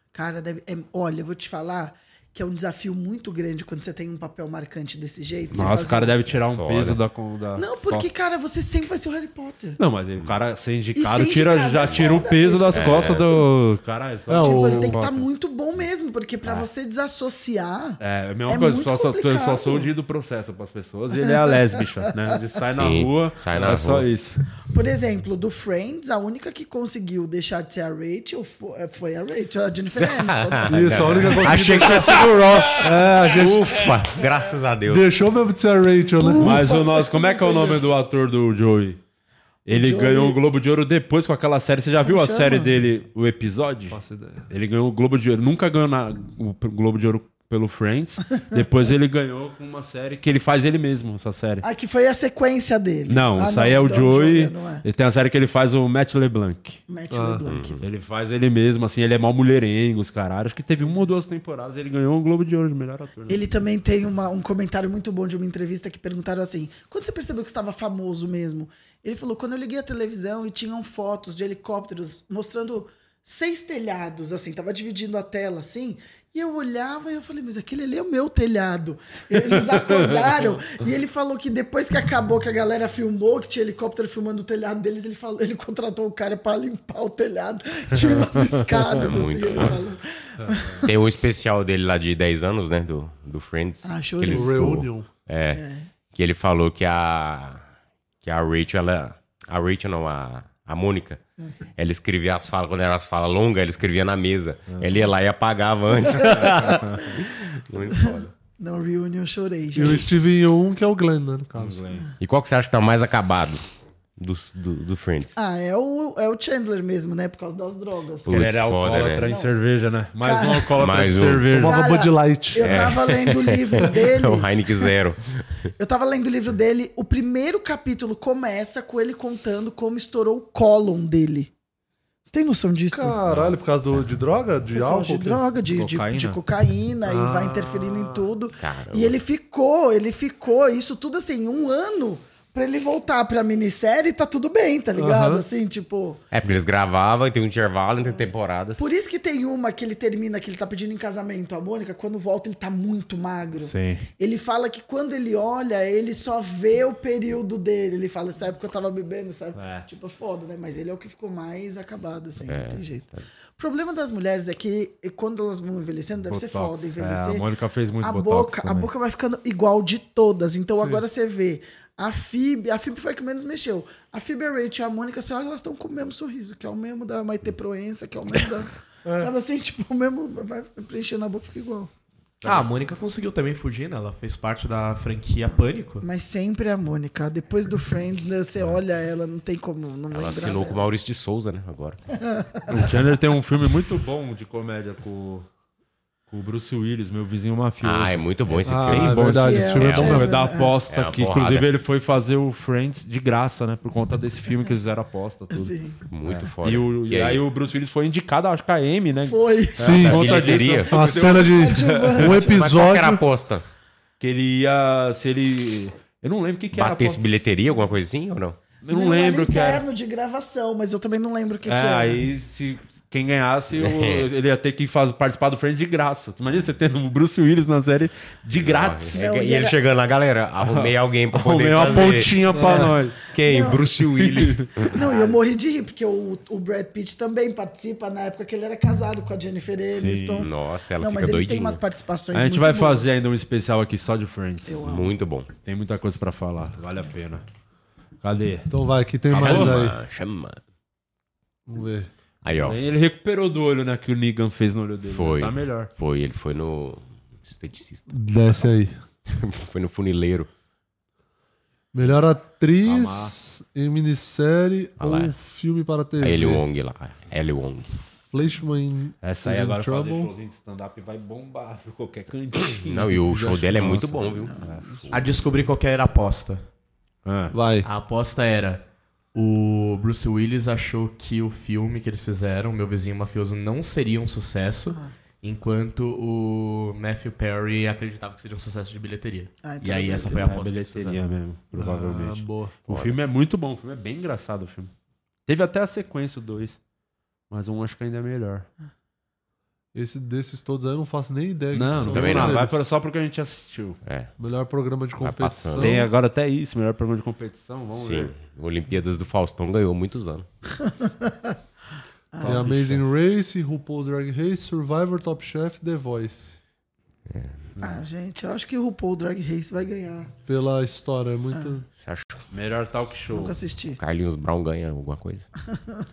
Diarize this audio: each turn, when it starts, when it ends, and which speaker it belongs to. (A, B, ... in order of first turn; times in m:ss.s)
0:00.1-0:06.2 A
0:05.5-0:07.0 B
0:05.5-0:08.1 C
0:07.6-0:09.8 A
0:09.8-0:15.2 C
0:11.0-0:13.2 A
0:12.7-0:13.3 B
0:14.3-0:15.0 D
0:14.3-0:19.9 A
0:18.0-0:24.4 C
0:21.2-0:21.8 A
0:22.7-0:24.1 B
0:24.7-0:31.0 A
0:30.0-0:35.1 B
0:30.7-0:33.9 D
0:34.9-0:36.8 D
0:36.2-0:37.8 A
0:36.4-0:39.0 C
0:39.6-0:51.6 C
0:39.7-0:40.4 A
0:42.0-0:42.8 A
0:43.9-0:44.5 D
0:51.6-0:54.8 A
0:53.1-0:56.8 C
0:56.9-0:57.8 A
0:57.1-0:57.5 D
0:57.4-0:57.8 B
0:57.8-1:03.4 C
1:03.3-1:30.9 A
1:29.0-1:29.8 B
1:30.8-1:35.6 B
1:33.8-1:34.5 A
1:34.3-1:35.1 D
1:35.5-1:35.9 A
1:36.1-1:37.6 B
1:38.2-1:41.2 B
1:41.8-1:48.3 B
1:46.0-1:46.8 A
1:46.2-1:47.1 C
1:48.6-1:50.1 A
1:49.7-1:51.8 D
1:51.5-1:52.0 C
1:52.2-1:53.6 B
1:54.2-1:55.3 B
1:55.3-1:58.3 A
1:58.2-1:59.2 B
1:58.2-2:01.8 C
1:59.2-1:59.5 A
2:00.2-2:00.7 A
2:00.8-2:01.6 B
2:01.5-2:02.9 D
2:01.6-2:04.9 A
2:02.6-2:05.4 B
2:05.8-2:11.5 A
2:12.3-2:13.1 A
2:12.9-2:15.4 D
2:13.3-2:13.5 B
2:14.7-2:26.2 A
2:15.7-2:16.4 C
2:17.0-2:18.3 D
2:18.6-2:19.2 B
2:25.0-2:25.4 D
2:26.3-2:28.9 B
2:28.8-2:43.0 A
2:33.6-2:34.0 C
2:39.6-2:39.8 C
2:42.4-2:43.2 B
2:43.6-2:47.4 A
2:46.3-2:48.9 C
2:48.0-3:01.9 A
3:02.4-3:06.0 E
3:06.0-3:10.8 A
3:10.1-3:12.0 B
3:12.7-3:15.5 C
3:16.3-3:25.7 C
3:17.8-3:20.2 B
3:18.6-3:20.3 D
3:19.3-3:20.7 A
3:20.9-3:21.7 B
3:25.5-3:26.0 A
3:26.1-3:27.4 B
3:26.2-3:32.3 C
3:29.3-3:29.9 A
3:29.8-3:33.2 D
3:30.0-3:31.0 B
3:31.0-3:32.6 A
3:32.2-3:33.6 B
3:34.2-3:37.2 C
3:36.7-3:38.6 B
3:38.8-3:39.8 C
3:38.9-3:42.2 A
3:41.6-3:49.2 C
3:43.7-3:44.3 B
3:48.6-3:52.6 B
3:49.1-3:49.8 A
3:50.6-3:53.2 C
3:52.5-3:52.9 D
3:53.3-3:54.9 B
3:53.4-3:53.9 A
3:54.2-3:55.3 C
3:54.9-4:03.1 A
3:59.9-4:00.5 C
4:00.4-4:01.8 B
4:02.3-4:04.9 C
4:04.6-4:05.1 A
4:04.8-4:05.5 B
4:05.6-4:07.4 C
4:08.2-4:08.7 C
4:08.7-4:09.9 D
4:09.3-4:09.8 C
4:09.3-4:10.6 B
4:11.7-4:12.1 D
4:12.4-4:12.8 B
4:12.5-4:15.9 C
4:15.1-4:18.7 B
4:18.1-4:18.9 D
4:19.2-4:20.5 B
4:21.9-4:26.6 D
4:22.8-4:23.3 C
4:25.0-4:25.3 B
4:26.2-4:27.9 B
4:28.3-4:30.3 D
4:29.2-4:33.1 C
4:32.8-4:35.5 B
4:33.2-4:35.0 D
4:33.7-4:34.0 C
4:34.6-4:34.9 C
4:35.1-4:36.6 E
4:37.2-4:37.5 C
4:37.5-4:37.9 D
4:37.8-4:38.8 E
4:39.3-4:51.2 E
4:49.6-4:50.6 A
4:50.1-4:54.9 C
4:51.7-4:52.7 D
4:52.9-4:53.2 B
4:55.4-4:56.8 C
4:57.5-4:58.7 C
4:59.9-5:02.9 D
5:01.7-5:04.0 C
5:02.0-5:02.6 B
5:04.0-5:04.3 B
5:04.4-5:06.1 D
5:05.2-5:06.0 B
5:05.8-5:08.3 C
5:07.9-5:10.4 B
5:10.8-5:11.5 A
5:12.4-5:13.0 C
5:12.4-5:16.6 D
5:17.3-5:17.7 B
5:17.8-5:20.3 A
5:20.4-5:21.8 D
5:22.0-5:22.4 B
5:22.5-5:23.6 C
5:23.3-5:24.0 A
5:23.9-5:25.5 B